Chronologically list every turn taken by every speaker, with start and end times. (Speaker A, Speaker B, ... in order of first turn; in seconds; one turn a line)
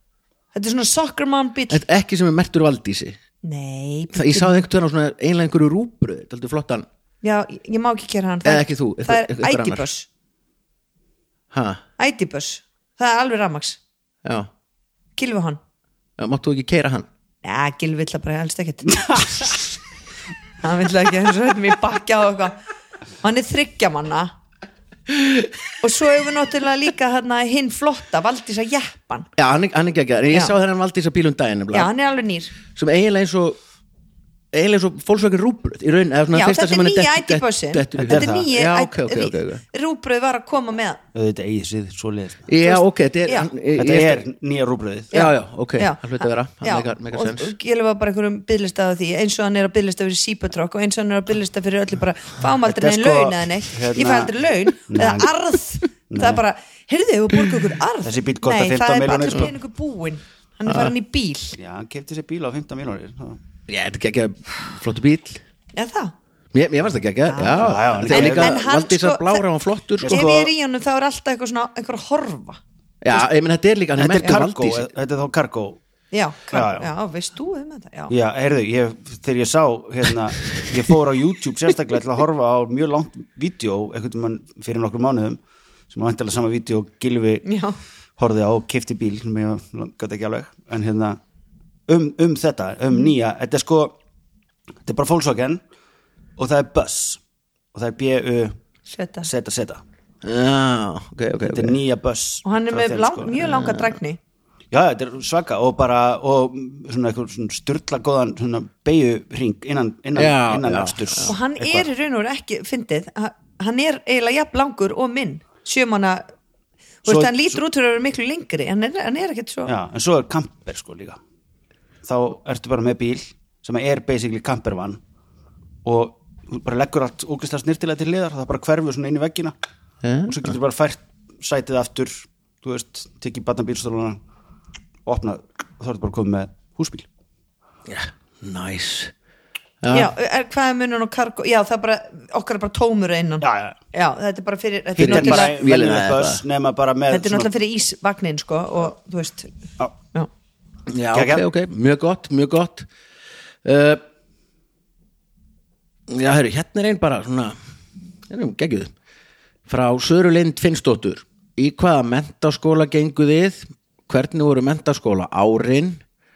Speaker A: 0.5-1.8
Speaker B: 1.7-3.2
Speaker A: 3.4-4.6
Speaker B: 4.1-6.9
Speaker A: 7.2-10.1
Speaker B: 8.4-9.9
Speaker B: 11.5-11.8
Speaker A: 12.0-13.8
Speaker B: 14.2-14.5
Speaker A: 15.2-15.6
Speaker B: 16.2-17.1
Speaker A: 17.4-19.5
Speaker A: 20.6-22.6
Speaker A: 23.2-24.3
Speaker B: 25.1-25.5
Speaker A: 25.8-29.3
Speaker B: 29.4-31.9
Speaker A: 31.7-32.5
Speaker B: 32.7-33.6
Speaker B: 34.5-39.6
Speaker A: 36.3-41.0
Speaker C: 38.0-38.5
Speaker C: 41.1-42.5
Speaker B: 42.5-44.2
Speaker A: 42.6-43.5
Speaker C: 43.8-45.1
Speaker B: 45.1-47.6
Speaker A: 45.1-61.6
Speaker C: 52.7-54.3
Speaker C: 54.9-55.3
Speaker C: 56.1-56.4
Speaker C: 58.0-59.5
Speaker B: 60.7-60.9
Speaker C: 61.6-63.4
Speaker B: 63.7-65.4
Speaker A: 65.7-66.1
Speaker B: 66.5-70.5
Speaker A: 67.3-69.4
Speaker C: 67.5-68.5
Speaker C: 70.0-70.5
Speaker A: 70.0-72.6
Speaker B: 73.0-74.9
Speaker C: 74.0-75.8
Speaker A: 76.1-78.1
Speaker C: 76.5-76.9
Speaker C: 78.1-85.4
Speaker C: 85.9-87.5
Speaker A: 87.5-87.8
Speaker C: 88.2-91.2
Speaker C: 91.9-94.0
Speaker C: 94.8-95.6
Speaker C: 96.4-97.2
Speaker C: 97.7-98.6
Speaker A: 98.9-99.3
Speaker C: 99.2-99.8
Speaker B: 100.2-101.8
Speaker C: 101.4-103.3
Speaker A: 102.5-104.2
Speaker B: 103.4-103.9
Speaker C: 104.7-111.9
Speaker B: 110.2-111.3
Speaker A: 111.2-116.3
Speaker C: 117.0-117.6
Speaker A: 117.0-119.7
Speaker C: 119.7-121.2
Speaker C: 122.0-125.0
Speaker C: 125.8-129.5
Speaker B: 130.0-130.5
Speaker C: 130.3-134.2
Speaker C: 135.1-137.1
Speaker B: 137.9-139.1
Speaker B: 139.8-140.1
Speaker A: 139.9-145.6
Speaker C: 143.4-143.8
Speaker C: 145.0-147.5
Speaker B: 145.0-146.4
Speaker A: 147.1-149.5
Speaker B: 150.9-152.9
Speaker C: 151.1-151.4
Speaker B: 153.6-154.0
Speaker B: 156.1-157.6
Speaker B: 158.3-158.9
Speaker B: 159.7-166.0